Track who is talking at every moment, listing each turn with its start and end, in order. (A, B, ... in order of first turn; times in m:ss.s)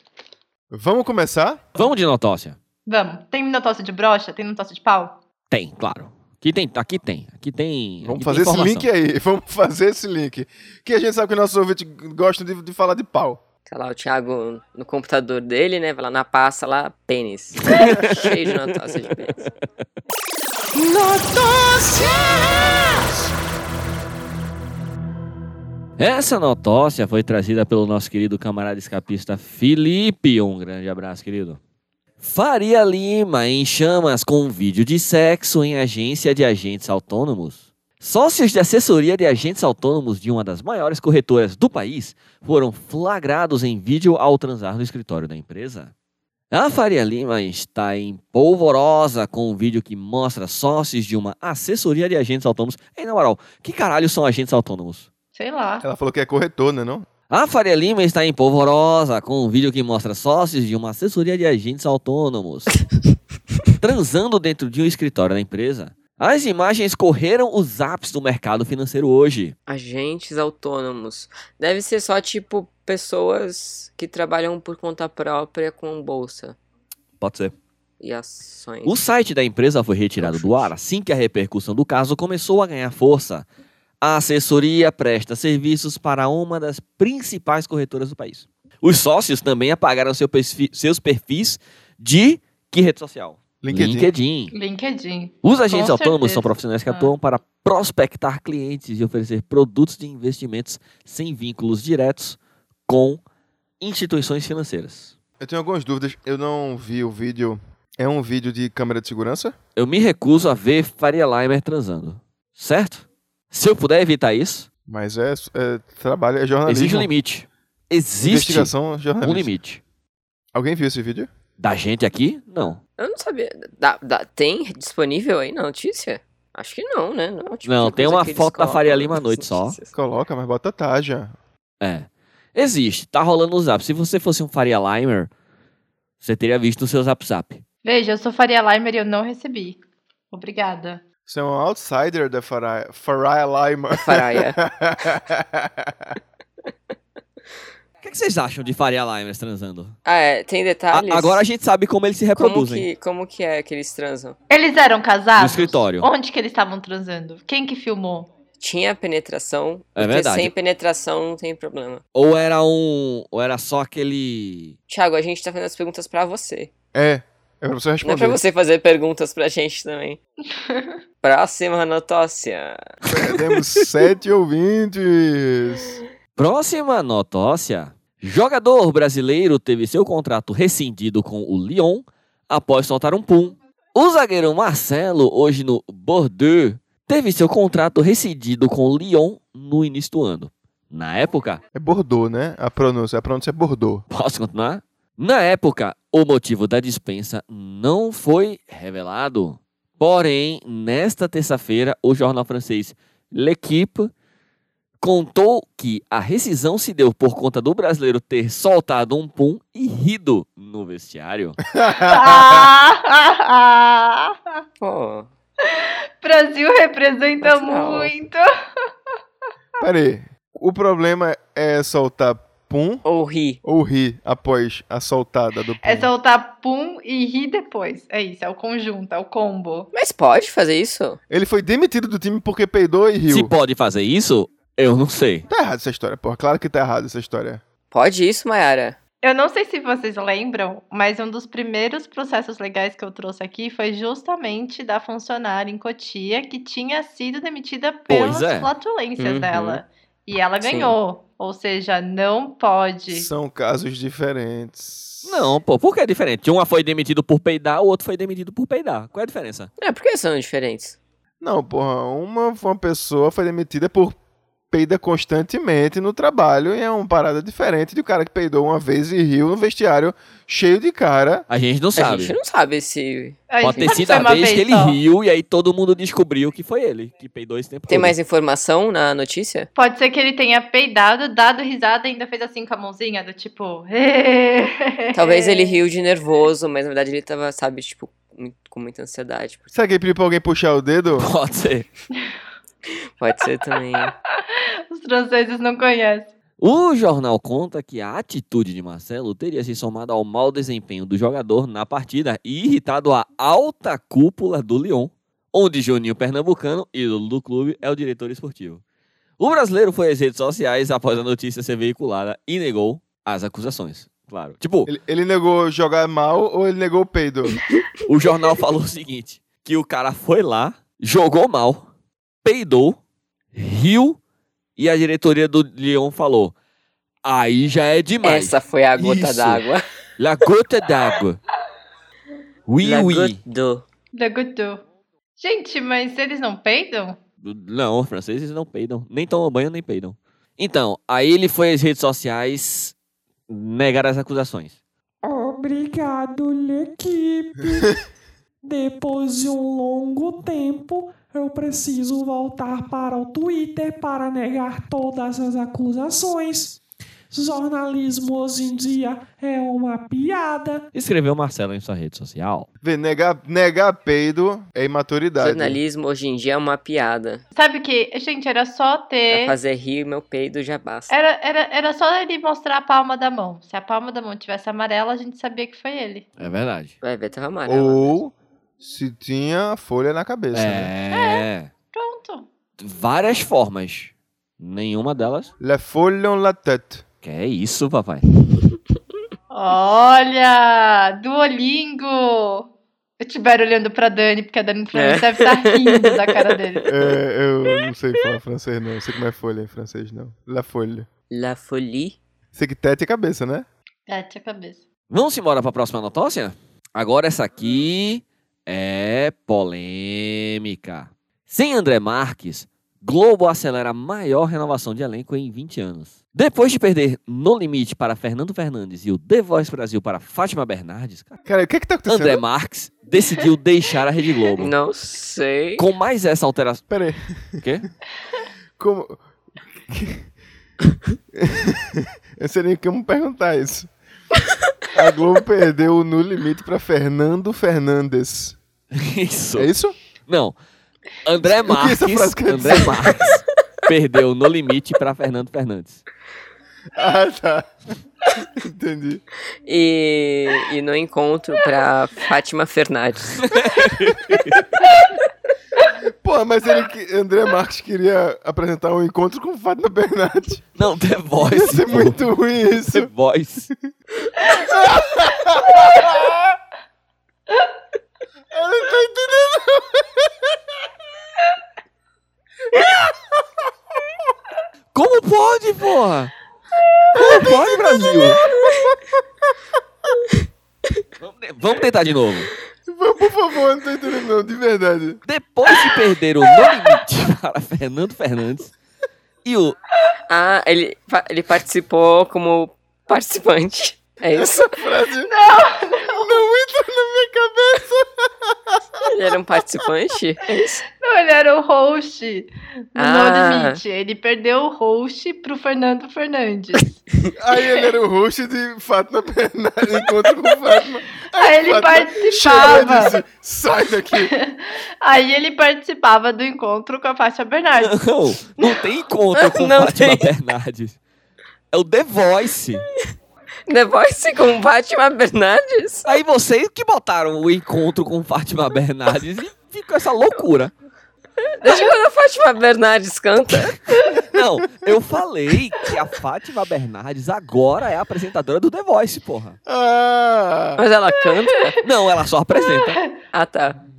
0:00.7-0:01.6 A
0:01.8-0:02.6 B
0:02.9-0:05.2 C
0:05.5-0:08.9 B
0:08.0-0:13.4 A
0:13.7-0:19.5 D
0:17.7-0:18.3 B
0:18.8-0:19.1 B
0:21.0-0:21.9 A
0:26.0-0:31.6 B
0:32.2-0:45.9 B
0:46.5-0:55.1 B
0:55.4-0:55.8 C
0:55.8-0:57.1 A
0:57.3-1:02.8 B
1:03.7-1:09.6 B
1:09.7-1:16.6 D
1:17.2-1:17.5 B
1:18.0-1:19.0 D
1:18.8-1:23.5 B
1:20.2-1:20.7 D
1:24.0-1:34.6 B
1:33.6-1:34.1 A
1:34.5-1:37.1 C
1:35.4-1:43.2 B
1:43.8-1:45.1 B
1:45.4-1:49.6 A
1:49.8-1:54.7 B
1:54.9-1:57.1 A
1:56.7-1:59.8 B
1:58.2-1:59.5 A
2:00.5-2:01.3 A
2:01.6-2:02.8 B
2:03.0-2:10.0 D
2:07.6-2:09.8 B
2:09.9-2:11.4 A
2:11.8-2:15.3 B
2:16.2-2:17.6 B
2:17.8-2:21.0 C
2:21.3-2:26.2 A
2:23.9-2:24.6 D
2:28.0-2:30.0 B
2:30.0-2:31.4 D
2:30.9-2:32.9 B
2:32.4-2:34.4 D
2:34.5-2:38.3 C
2:35.4-2:36.1 B
2:38.6-2:42.0 D
2:40.0-2:40.5 B
2:42.1-2:44.8 B
2:44.9-2:46.7 D
2:46.9-2:48.4 A
2:48.0-2:50.2 D
2:50.6-2:51.0 C
2:51.2-2:52.9 D
2:53.1-2:56.0 A
2:53.1-2:53.3 B
2:56.4-3:11.6 B
3:11.8-3:14.0 A
3:14.1-3:24.1 B
3:25.0-3:31.6 B
3:31.7-3:32.7 A
3:31.9-3:34.4 C
3:34.8-3:35.3 D
3:35.7-3:38.5 C
3:37.4-3:38.1 D
3:39.8-3:43.0 A
3:43.0-3:43.6 D
3:43.6-3:46.1 A
3:45.8-3:49.9 C
3:49.9-3:51.2 D
3:51.3-3:53.5 A
3:53.3-3:55.5 B
3:55.5-3:57.6 A
3:57.9-3:59.0 D
3:59.2-4:13.3 C
4:08.1-4:08.7 B
4:09.2-4:09.8 D
4:10.6-4:11.0 D
4:13.1-4:15.5 A
4:15.2-4:19.7 B
4:19.8-4:21.0 D
4:21.4-4:24.2 A
4:24.7-4:31.5 A
4:31.5-4:32.4 B
4:32.0-4:34.2 D
4:33.5-4:35.0 C
4:33.6-4:38.1 B
4:37.9-4:39.7 D
4:39.8-4:45.8 C
4:45.1-4:49.7 D
4:49.7-4:51.3 A
4:51.2-4:51.9 B
4:53.2-4:54.1 D
4:54.5-4:56.3 C
4:56.6-5:08.8 B
5:09.4-5:14.9 B
5:14.9-5:17.6 A
5:18.1-5:21.9 B
5:22.4-5:23.0 B
5:23.5-5:24.2 B
5:24.8-5:26.5 B
5:27.2-5:29.6 B
5:28.2-5:29.8 D
5:30.2-5:31.4 B
5:32.7-5:33.4 B
5:32.8-5:33.8 D
5:34.1-5:34.8 C
5:35.4-5:37.2 C
5:37.4-5:43.0 B
5:43.5-5:44.8 B
5:45.2-5:47.9 E
5:48.6-6:00.9 E
6:00.9-6:02.7 B
6:02.8-6:05.8 A
6:05.4-6:07.4 D
6:07.6-6:09.6 C
6:09.3-6:11.1 D
6:11.1-6:16.2 C
6:16.4-6:17.0 B
6:17.0-6:18.2 D
6:17.7-6:20.9 A
6:20.5-6:21.7 B
6:21.1-6:22.5 C
6:22.8-6:25.5 B
6:25.6-6:27.0 A
6:27.2-6:28.2 B
6:29.5-6:32.7 C
6:33.2-6:36.9 C
6:34.9-6:36.2 D
6:36.9-6:41.1 A
6:41.3-6:42.2 D
6:42.6-6:43.7 A
6:44.1-6:44.8 C
6:45.1-7:01.4 B
7:01.5-7:02.4 A
7:02.1-7:04.7 B
7:04.6-7:05.9 D
7:05.8-7:06.8 B
7:06.9-7:07.6 A
7:07.6-7:07.9 B
7:08.8-7:09.2 A
7:09.7-7:10.3 A
7:11.3-7:13.9 A
7:14.9-7:18.6 A
7:18.9-7:19.7 B
7:19.6-7:20.0 A
7:20.3-7:20.6 B
7:21.2-7:26.0 B
7:21.6-7:23.3 A
7:26.9-7:27.7 A
7:28.6-7:29.2 A
7:29.6-7:33.5 D
7:33.5-7:34.6 B
7:36.2-7:40.7 A
7:40.8-7:43.7 B
7:41.5-7:43.1 A
7:44.4-7:46.6 A
7:48.5-7:50.5 A
7:54.9-7:56.3 B
7:57.1-7:58.5 B
8:01.2-8:02.5 B
8:02.9-8:05.2 A
8:05.3-8:08.7 B
8:09.4-8:09.8 B
8:10.3-8:14.7 D
8:14.4-8:19.0 A
8:15.3-8:16.4 C
8:19.0-8:20.8 D
8:21.0-8:27.0 C
8:23.0-8:23.8 D
8:27.4-8:34.3 A
8:31.3-8:33.2 C
8:34.2-8:38.0 C
8:37.8-8:41.0 B
8:38.6-8:38.8 C
8:39.4-8:40.3 D
8:41.7-8:42.9 B
8:43.7-8:46.1 D
8:46.1-8:50.7 B
8:51.6-8:53.8 D
8:53.7-8:59.6 B
8:59.7-9:00.8 A
9:00.8-9:01.8 D
9:01.8-9:03.0 B
9:02.5-9:03.1 C
9:03.3-9:03.8 D